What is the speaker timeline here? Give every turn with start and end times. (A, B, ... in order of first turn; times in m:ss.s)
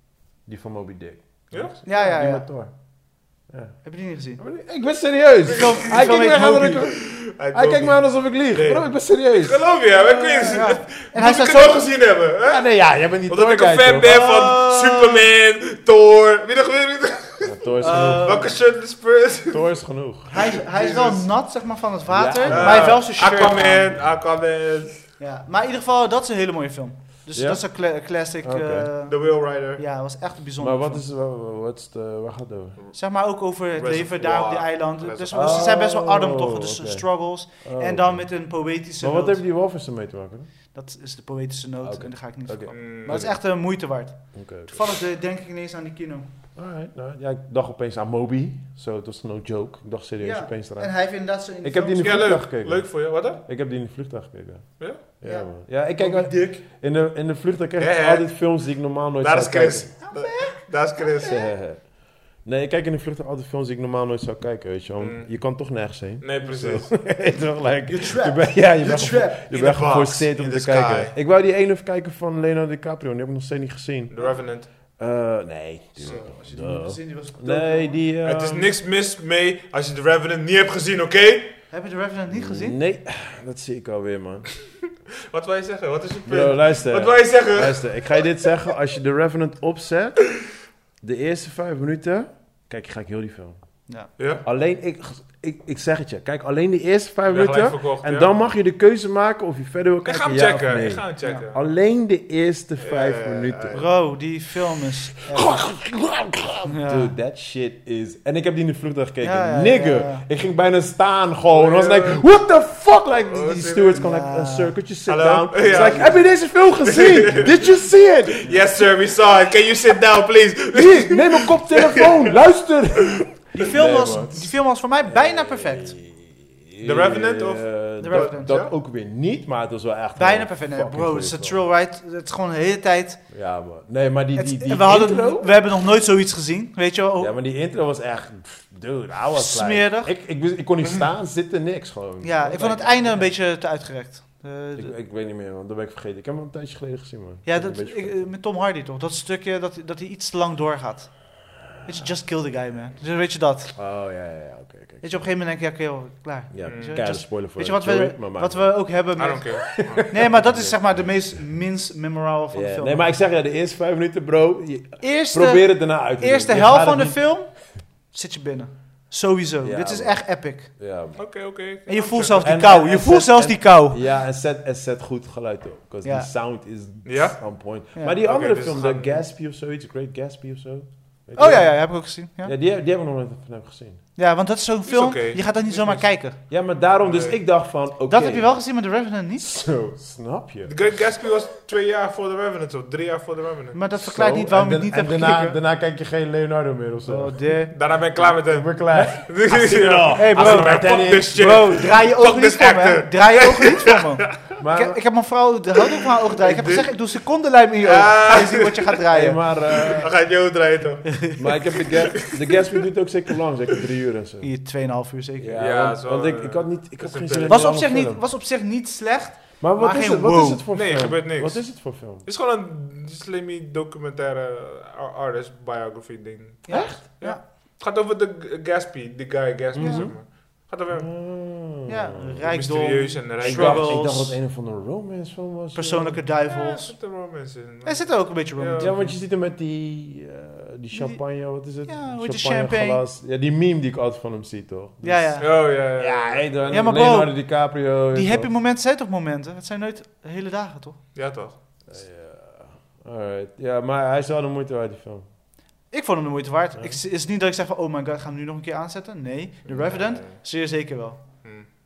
0:00.4-0:10.7 A
0:01.5-0:01.9 B
0:01.8-0:02.5 C
0:03.8-0:04.4 C
0:05.5-0:06.9 C
0:05.6-0:06.2 B
0:06.9-0:21.3 B
0:10.5-0:11.9 C
0:12.4-0:14.1 A
0:14.0-0:15.3 C
0:17.4-0:18.5 A
0:17.8-0:18.6 C
0:19.5-0:20.3 A
0:20.3-0:24.0 C
0:22.1-0:23.0 A
0:22.5-0:25.1 B
0:25.2-0:31.0 C
0:27.3-0:27.6 A
0:28.4-0:28.9 A
0:29.0-0:29.8 B
0:30.6-0:32.8 A
0:32.9-0:39.4 C
0:33.7-0:35.7 B
0:35.3-0:40.5 A
0:40.7-0:46.3 C
0:41.8-0:44.9 A
0:42.7-0:43.3 B
0:46.6-0:59.9 A
0:50.2-0:52.2 C
0:52.0-0:53.4 B
0:55.2-0:56.6 C
0:57.8-1:01.4 B
1:00.0-1:01.5 C
1:01.2-1:18.7 A
1:05.0-1:07.1 B
1:07.8-1:09.4 C
1:09.5-1:11.1 B
1:14.1-1:14.7 B
1:16.0-1:18.0 C
1:16.0-1:16.3 B
1:18.2-1:21.6 B
1:21.7-1:22.8 C
1:22.3-1:24.5 A
1:25.3-1:27.9 B
1:26.2-1:30.4 A
1:31.0-1:33.8 A
1:34.2-1:34.4 B
1:34.4-1:43.9 A
1:37.3-1:38.3 B
1:40.0-1:41.7 B
1:42.8-1:43.8 B
1:43.7-1:45.7 C
1:45.3-1:58.8 A
1:46.7-1:47.1 C
1:49.2-1:50.2 C
1:51.5-1:52.2 B
1:53.2-1:54.0 B
1:53.9-1:54.8 C
1:55.0-2:02.3 B
1:55.6-1:56.2 C
2:00.7-2:11.6 A
2:03.5-2:06.0 C
2:06.8-2:08.7 B
2:08.0-2:08.6 C
2:10.2-2:13.3 C
2:13.3-2:15.6 A
2:14.3-2:17.4 C
2:17.2-2:23.4 A
2:19.3-2:20.1 C
2:22.2-2:24.9 C
2:24.8-2:28.3 A
2:27.4-2:33.8 C
2:33.8-2:35.3 A
2:35.0-2:43.1 C
2:36.5-2:41.4 A
2:36.6-2:37.0 B
2:39.2-2:40.4 B
2:42.5-2:47.3 A
2:45.0-2:50.7 C
2:49.6-2:51.2 A
2:51.2-2:52.4 B
2:51.9-2:54.0 C
2:52.4-3:04.0 A
2:56.0-2:56.3 C
2:57.0-2:59.2 B
3:01.4-3:02.5 C
3:04.2-3:06.4 C
3:04.8-3:07.4 B
3:06.5-3:08.7 A
3:08.0-3:09.5 C
3:09.4-3:11.0 A
3:10.6-3:13.8 B
3:13.7-3:15.6 C
3:13.9-3:21.8 A
3:17.0-3:18.3 C
3:17.7-3:24.3 B
3:18.9-3:19.2 C
3:20.2-3:29.4 C
3:24.6-3:25.0 A
3:26.4-3:26.9 B
3:27.8-3:28.9 B
3:29.1-3:30.2 A
3:29.9-3:31.4 B
3:31.1-3:31.4 C
3:31.4-3:34.5 A
3:32.2-3:32.6 B
3:34.4-3:35.7 C
3:35.4-3:38.2 A
3:35.6-3:37.7 B
3:37.5-3:40.6 C
3:39.6-3:42.2 A
3:40.7-3:51.1 B
3:46.7-3:47.4 C
3:46.7-3:47.0 A
3:49.7-3:52.5 A
3:49.8-3:50.1 C
3:51.8-3:54.4 C
3:52.4-3:54.0 B
3:53.4-3:56.2 A
3:55.7-3:57.0 C
3:56.5-3:58.9 B
3:57.8-3:59.2 C
3:58.8-4:08.5 A
4:00.9-4:03.0 C
4:05.0-4:05.6 C
4:05.4-4:07.1 B
4:06.7-4:11.0 C
4:11.1-4:11.6 B
4:11.9-4:15.3 A
4:15.9-4:21.2 C
4:16.8-4:17.0 A
4:19.6-4:20.4 B